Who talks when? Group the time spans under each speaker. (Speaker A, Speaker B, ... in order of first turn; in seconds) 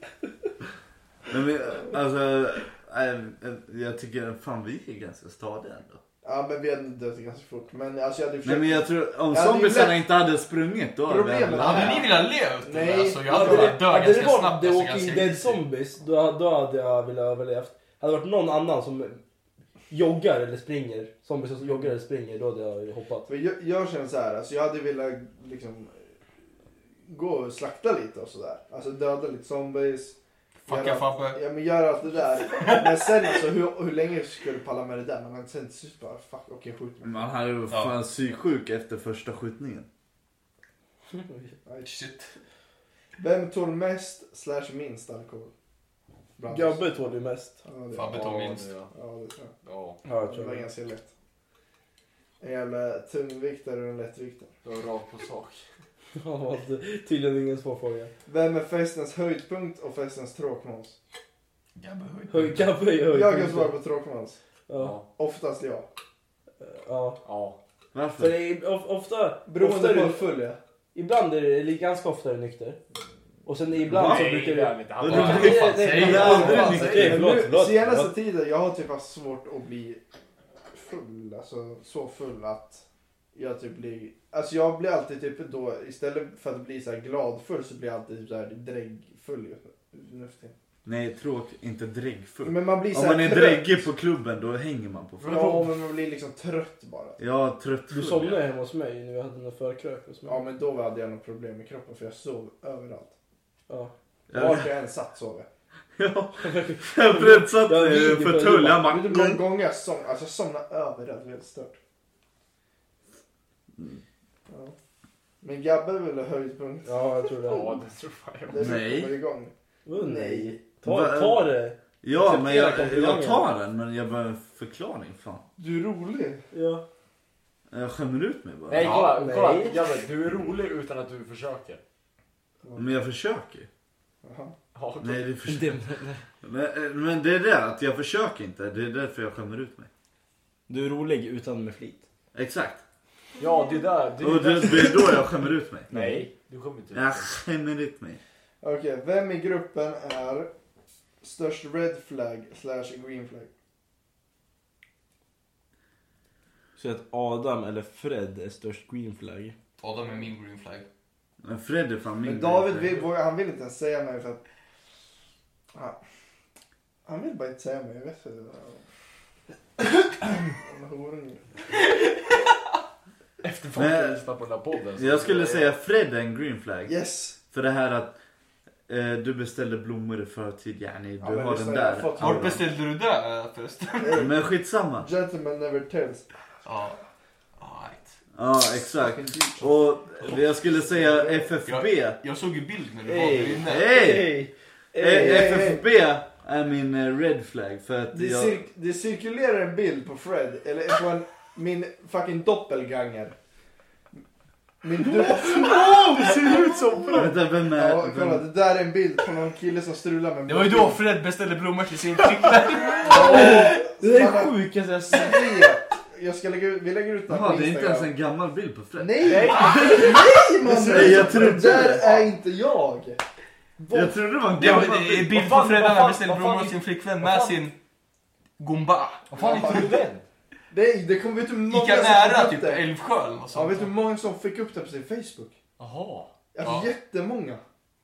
Speaker A: 1.3-6.0, 8.4-12.1, 37.0-39.9, 67.9-68.4, 73.8-74.4, 75.0-77.2, 90.8-95.5, 97.2-98.4, 104.3-104.7, 106.0-109.5, 113.8-114.0, 118.6-119.2, 120.8-125.5, 127.7-128.9, 132.8-133.7, 135.0-135.8, 136.4-139.9, 142.3-142.8, 144.2-146.2, 146.9-148.2, 161.4-163.0, 173.8-174.2, 174.9-176.9, 177.5-178.2, 178.9-182.6, 184.2-185.1, 188.3-192.2, 193.6-194.3, 195.0-198.6, 207.1-208.5, 217.3-219.7, 220.7-222.2, 223.9-225.4
Speaker B: 6.2-10.0, 11.1-13.8, 23.3-26.0, 27.1-30.2, 30.7-37.3, 43.2-45.5, 46.4-46.8, 47.6-49.5, 50.2-51.1, 52.4-54.5, 58.3-61.0, 63.0-64.4, 65.2-65.9, 69.5-70.6, 76.3-80.0, 80.7-82.8, 83.3-90.5, 92.4-93.8, 95.2-97.2, 100.3-103.1, 104.3-105.5, 108.7-111.8, 114.5-114.8, 115.4-117.0, 118.5-120.6, 125.6-126.4, 132.6-132.9, 134.2-134.5, 148.6-150.5, 151.2-153.5, 162.2-164.4, 167.1-168.8, 169.8-171.5, 176.9-177.4, 181.2-182.6, 184.0-184.3, 185.0-186.2, 188.8-189.7, 190.2-191.5, 195.0-195.8, 198.1-203.4, 204.8-206.5, 207.1-211.0, 213.0-214.6, 215.1-218.1, 219.0-223.2, 229.4-230.0, 230.7-232.9, 233.5-235.6, 236.5-237.6
Speaker C: 11.5-15.6, 30.6-31.4, 32.6-32.9, 37.7-38.0, 41.8-42.4, 47.9-48.7, 61.8-62.7, 75.1-77.1, 128.8-129.2, 159.8-160.9, 182.2-184.3, 186.6-187.0, 187.6-188.1, 191.7-193.9, 210.5-213.6, 224.5-227.8, 228.6-230.0, 231.7-233.9, 236.6-236.9
Speaker D: 13.3-19.2, 19.9-23.3, 41.1-41.5, 46.5-47.6, 50.0-50.7, 56.2-58.1, 62.3-63.8, 64.7-65.0, 66.6-67.2, 68.2-70.3, 70.9-72.8, 73.5-78.1, 97.9-100.4, 106.4-108.9, 116.8-117.8, 119.9-123.5, 126.5-126.8, 128.8-129.8, 135.5-136.2, 140.7-142.0, 156.8-159.6, 193.1-195.6, 213.2-215.5, 220.7-221.6
Speaker E: 48.1-48.9, 49.6-50.0, 54.6-55.6, 64.8-65.1, 67.2-67.6, 73.9-76.9, 95.2-95.6, 117.4-118.8, 128.7-131.8, 134.7-135.3, 143.4-145.2, 145.9-147.3, 173.4-175.7, 205.4-207.3, 212.2-213.7, 219.2-220.3, 225.2-227.6, 229.3-230.2, 235.8-236.3